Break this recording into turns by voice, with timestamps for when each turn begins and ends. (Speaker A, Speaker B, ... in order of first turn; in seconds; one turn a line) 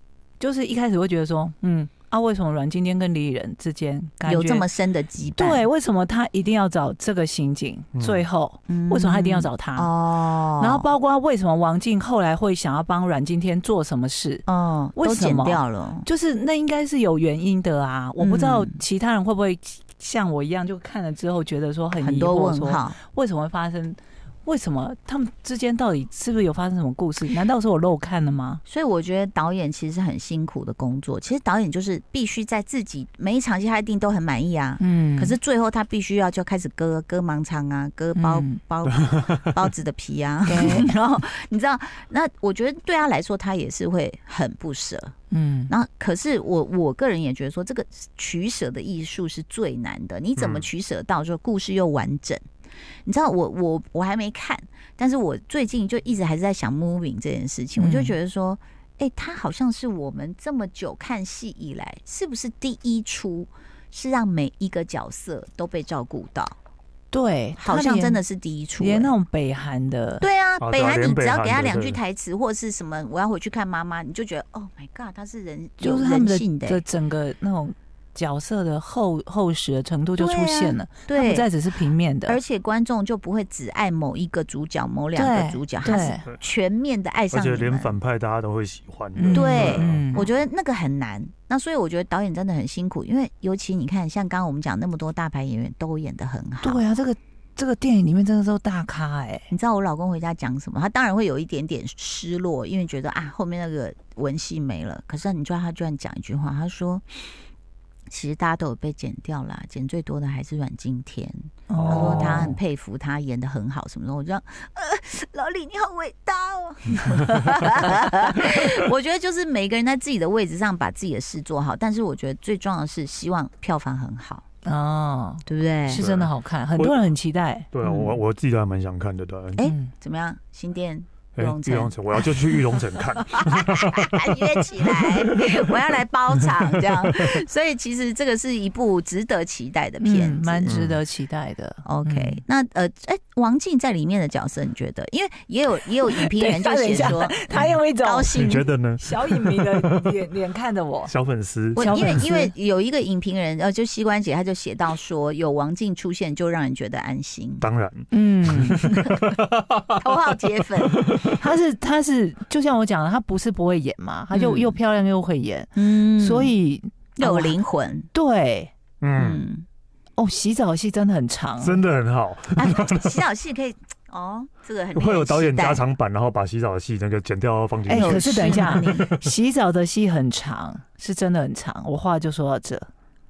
Speaker A: 0.4-4.6
Speaker B: 4.2-5.6
Speaker A: 5.4-9.9
Speaker C: 7.9-8.2
Speaker B: 8.7-10.9
Speaker A: 10.6-14.4
Speaker B: 14.5-16.1
Speaker A: 15.0-28.6
Speaker B: 18.2-18.8
Speaker B: 22.0-23.0
Speaker B: 28.7-45.1
Speaker A: 34.8-35.4
Speaker A: 38.1-38.6
Speaker C: 39.1-39.5
Speaker A: 40.5-40.9
Speaker A: 45.3-45.7
Speaker B: 45.7-52.4
Speaker C: 50.4-50.7
Speaker B: 53.0-66.5
Speaker A: 57.8-58.1
Speaker A: 67.1-68.2
Speaker B: 67.6-69.1
Speaker A: 68.8-70.2
Speaker B: 70.2-76.8
Speaker C: 70.6-72.0
Speaker A: 75.8-82.4
Speaker B: 80.2-81.5
Speaker B: 82.3-88.0
Speaker A: 85.1-86.2
Speaker C: 86.1-86.4
Speaker C: 87.3-90.3
Speaker A: 89.1-90.2
Speaker B: 89.3-96.8
Speaker A: 96.6-99.5
Speaker B: 99.5-107.0
Speaker B: 108.1-124.4
Speaker A: 111.7-112.5
Speaker C: 111.8-112.5
Speaker A: 124.6-127.7
Speaker B: 125.5-126.0
Speaker C: 125.9-127.0
Speaker C: 127.7-129.6
Speaker B: 127.8-128.2
Speaker B: 129.6-132.6
Speaker A: 129.6-129.9
Speaker C: 131.4-134.8
Speaker B: 133.2-140.8
Speaker A: 140.0-142.4
Speaker C: 140.7-141.0
Speaker B: 141.8-148.6
Speaker A: 146.1-151.1
Speaker C: 148.3-150.2
Speaker C: 151.1-152.2
Speaker B: 151.8-157.6
Speaker A: 151.8-152.5
Speaker C: 157.6-159.8
Speaker A: 158.1-159.0
Speaker B: 158.9-159.3
Speaker B: 160.0-161.0
Speaker C: 160.9-161.3
Speaker A: 161.2-167.6
Speaker B: 164.3-164.8
Speaker B: 165.8-166.5
Speaker B: 167.2-168.1
Speaker A: 168.1-168.7
Speaker C: 169.0-169.4
Speaker B: 169.1-169.6
Speaker A: 170.2-171.8
Speaker C: 171.6-173.2
Speaker B: 172.6-175.9
Speaker C: 174.9-179.0
Speaker A: 177.9-182.9
Speaker B: 177.9-179.1